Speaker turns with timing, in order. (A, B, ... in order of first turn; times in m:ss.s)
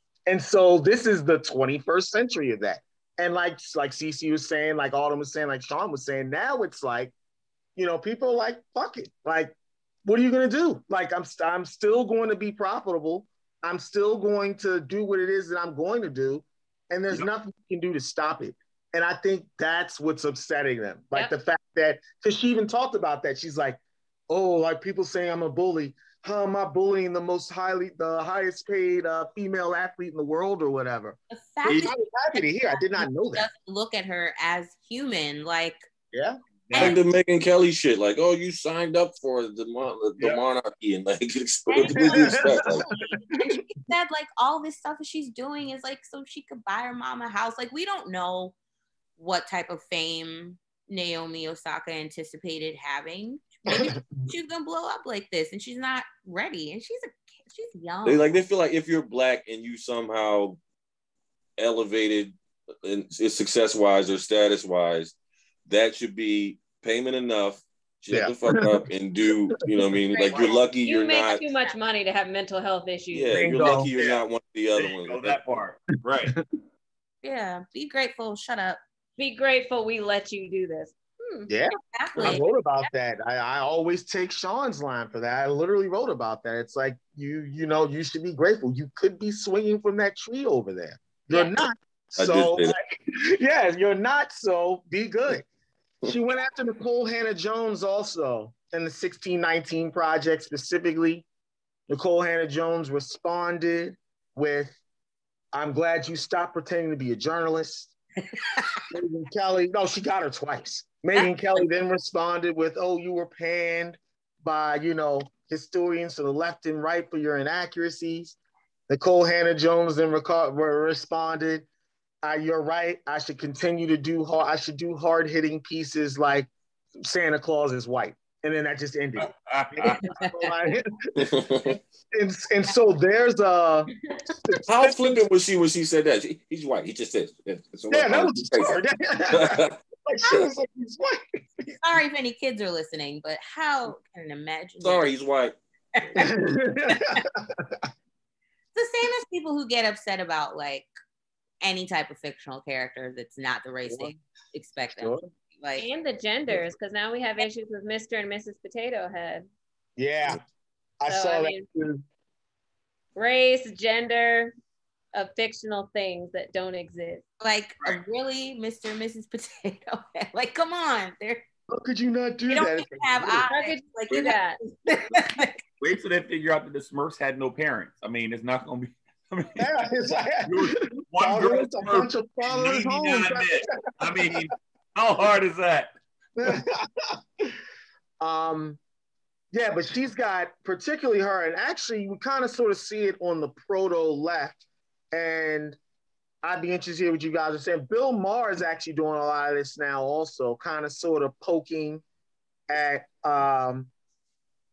0:00.3-0:07.1 A
0:07.8-0:09.5 A
0:10.0-0:23.8 A
0:24.3-0:33.5 A
0:31.3-0:35.9 B
0:31.7-0:31.9 C
0:36.1-0:36.4 A
0:36.7-0:37.0 C
0:36.7-0:37.0 B
0:36.8-0:42.9 D
0:41.7-0:48.6 B
0:42.0-0:42.9 A
0:49.2-0:58.3 B
0:58.0-1:00.6 D
1:01.6-1:11.4 D
1:08.1-1:08.8 A
1:10.1-1:10.7 B
1:10.8-1:13.3 E
1:13.1-1:15.4 D
1:13.3-1:13.9 A
1:13.6-1:14.2 C
1:14.8-1:16.4 C
1:17.2-1:18.8 B
1:19.2-1:21.5 E
1:21.5-1:35.4 A
1:21.8-1:22.9 B
1:32.2-1:32.8 D
1:36.0-1:41.3 A
1:41.9-1:44.8 A
1:45.5-1:47.9 A
1:48.3-1:48.8 B
1:48.9-1:58.4 A
1:51.2-1:51.6 B
1:58.9-2:01.7 A
2:02.2-2:06.5 A
2:07.0-2:14.9 A
2:09.2-2:10.0 C
2:10.1-2:10.5 B
2:11.2-2:11.8 D
2:14.7-2:19.8 D
2:17.9-2:21.7 A
2:21.8-2:25.1 B
2:24.8-2:25.6 D
2:26.0-2:26.3 B
2:26.2-2:27.8 A
2:26.9-2:27.2 B
2:28.8-2:30.9 B
2:31.6-2:35.9 B
2:35.0-2:35.3 A
2:35.8-2:39.5 E
2:40.0-2:40.4 A
2:41.0-2:42.0 A
2:41.1-2:41.6 E
2:43.2-2:44.5 E
2:45.1-2:47.2 E
2:47.4-2:51.4 B
2:51.7-2:53.5 A
2:52.5-2:55.6 B
2:53.5-2:54.6 E
2:55.1-2:59.9 C
2:59.6-3:03.6 A
3:00.4-3:05.9 C
3:04.2-3:04.4 A
3:06.4-3:07.6 A
3:08.2-3:08.8 A
3:09.5-3:14.6 A
3:15.1-3:15.8 A
3:16.4-3:22.0 A
3:22.7-3:23.9 A